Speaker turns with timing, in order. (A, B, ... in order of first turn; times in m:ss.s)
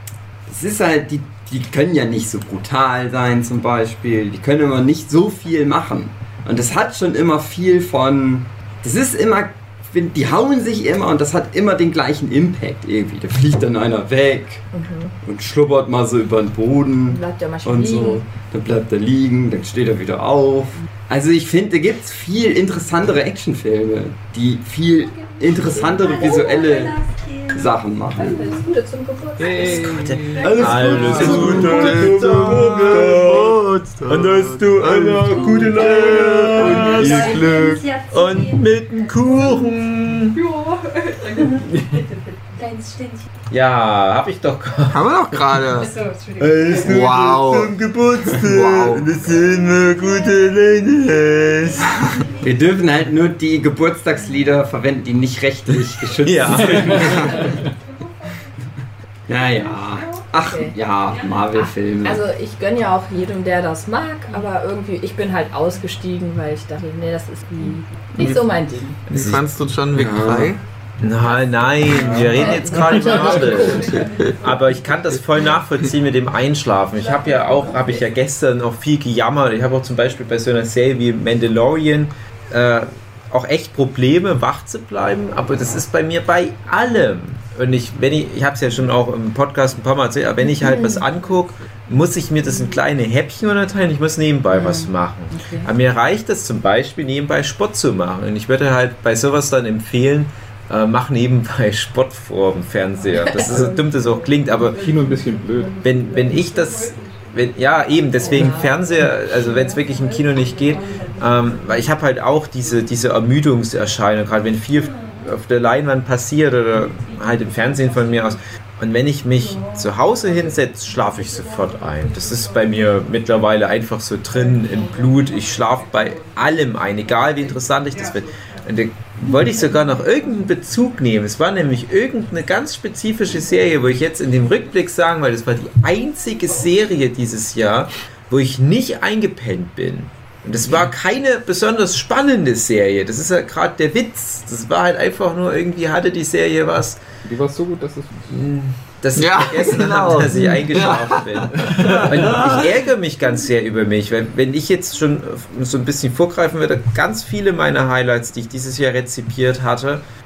0:00.5-0:14.6 A
0:14.7-0:15.1 B
0:15.2-0:28.5 A
0:17.1-0:18.2 B
0:26.1-0:26.8 B
0:28.2-0:31.5 B
0:29.4-0:31.4 C
0:29.9-0:40.4 D
0:30.4-0:37.4 E
0:31.2-0:33.1 A
0:36.6-0:37.9 A
0:42.6-0:43.2 B
0:43.5-0:52.3 D
0:44.9-0:45.9 E
0:46.8-0:47.7 A
0:48.2-0:49.1 A
0:52.2-0:57.6 A
0:56.2-0:57.4 D
0:56.7-0:57.1 C
0:59.3-1:02.2 A
1:00.4-1:00.7 B
1:01.5-1:09.0 B
1:09.1-1:09.4 D
1:09.1-1:10.6 E
1:09.9-1:10.5 A
1:11.0-1:44.9 D
1:11.2-1:14.0 B
1:13.9-1:14.3 E
1:30.6-1:31.0 B
1:34.5-1:35.7 B
1:43.1-1:43.8 B
1:44.7-1:45.8 C
1:45.8-2:27.0 D
1:48.2-1:48.7 B
2:27.2-2:28.4 C
2:28.3-2:40.0 D
2:29.2-2:32.7 E
2:30.8-2:31.0 A
2:31.6-2:32.4 A